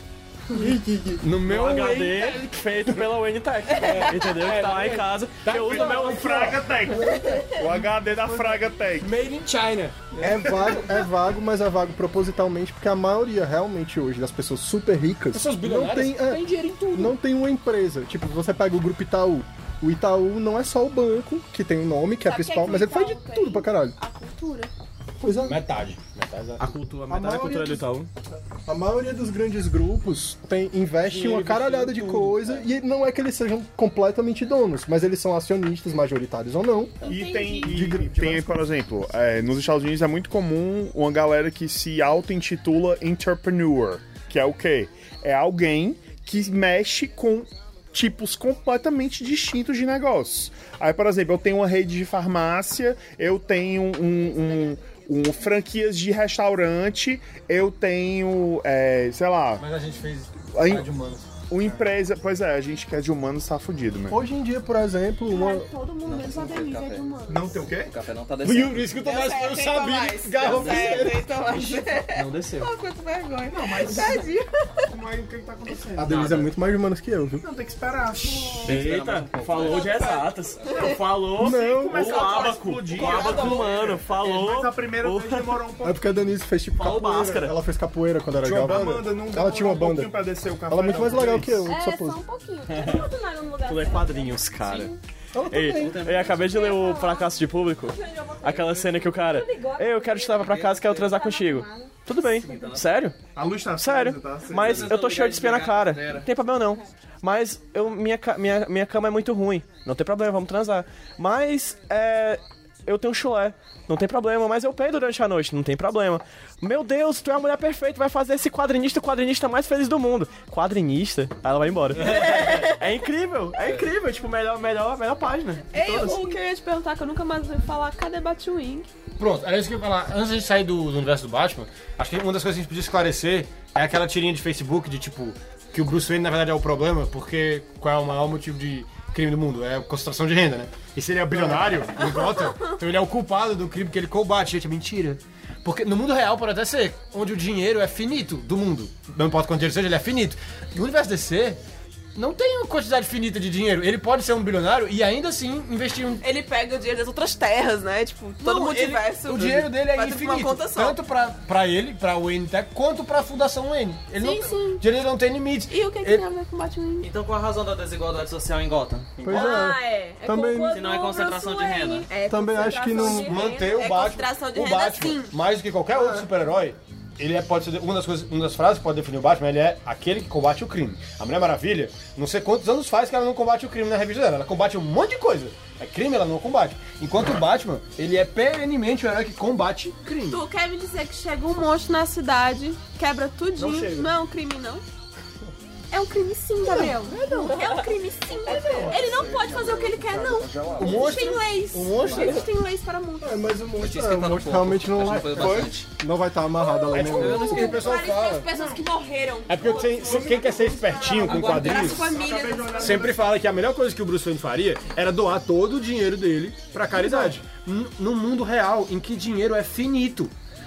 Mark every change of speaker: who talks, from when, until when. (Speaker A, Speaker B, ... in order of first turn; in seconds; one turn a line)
Speaker A: 0.5-1.2
Speaker B: 1.2-2.6
Speaker C: 1.4-6.5
Speaker B: 3.7-7.2
Speaker D: 3.8-4.1
Speaker E: 5.7-9.1
Speaker D: 7.0-7.6
Speaker B: 9.0-10.9
Speaker A: 10.2-24.0
Speaker B: 15.3-16.4
Speaker D: 22.2-24.7
Speaker A: 25.2-25.6
Speaker B: 25.4-26.8
Speaker C: 26.6-28.1
Speaker A: 27.1-27.8
Speaker A: 28.7-37.1
Speaker C: 31.1-32.1
Speaker B: 31.1-32.6
Speaker D: 37.0-37.8
Speaker E: 37.0-59.6
Speaker A: 37.7-38.5
Speaker B: 59.6-61.8
Speaker E: 60.5-60.9
Speaker E: 61.5-64.2
Speaker A: 64.1-65.7
Speaker D: 65.3-67.6
Speaker F: 66.0-67.1
Speaker E: 67.3-67.9
Speaker F: 67.8-69.0
Speaker B: 68.4-71.3
Speaker D: 68.9-74.9
Speaker C: 72.1-72.7
Speaker E: 73.5-74.3
Speaker E: 74.8-76.4
Speaker A: 76.0-77.5
Speaker F: 76.1-76.5
Speaker E: 77.4-78.8
Speaker C: 78.6-85.7
Speaker F: 78.7-79.9
Speaker D: 79.6-79.9
Speaker E: 79.9-80.3
Speaker D: 80.7-81.0
Speaker A: 81.4-82.2
Speaker E: 81.4-86.2
Speaker D: 82.0-83.8
Speaker G: 83.0-83.7
Speaker A: 85.8-92.2
Speaker C: 86.7-87.6
Speaker E: 88.4-91.7
Speaker B: 88.6-89.0
Speaker G: 91.7-95.0
Speaker C: 92.7-93.0
Speaker C: 93.7-94.9
Speaker A: 95.3-96.0
Speaker C: 95.5-103.2
Speaker F: 95.7-96.5
Speaker G: 96.2-102.7
Speaker F: 100.4-101.2
Speaker F: 102.2-103.0
Speaker E: 103.3-104.9
Speaker C: 103.8-126.3
Speaker F: 104.6-106.3
Speaker D: 122.1-122.8
Speaker D: 125.7-128.9
Speaker B: 129.2-151.6
Speaker E: 141.3-141.7
Speaker D: 142.0-142.5
Speaker B: 152.2-156.2
Speaker D: 156.2-161.0
Speaker B: 158.4-166.2
Speaker D: 164.2-164.8
Speaker D: 165.7-167.1
Speaker F: 167.0-169.1
Speaker B: 169.2-169.6
Speaker A: 169.2-170.9
Speaker G: 169.3-173.8
Speaker F: 170.7-172.1
Speaker A: 172.3-173.4
Speaker B: 173.0-190.4
Speaker D: 173.6-175.3
Speaker A: 175.9-176.3
Speaker D: 190.3-194.8
Speaker B: 193.6-194.0
Speaker D: 195.9-203.4
Speaker G: 197.4-199.5
Speaker A: 198.6-199.0
Speaker E: 199.3-200.9
Speaker B: 200.8-202.4
Speaker A: 203.2-207.8
Speaker F: 203.7-205.9
Speaker D: 206.6-213.1
Speaker B: 206.9-208.8
Speaker F: 207.1-207.6
Speaker B: 209.5-212.2
Speaker F: 211.3-212.0
Speaker E: 212.0-213.4
Speaker B: 212.8-220.3
Speaker A: 216.9-217.4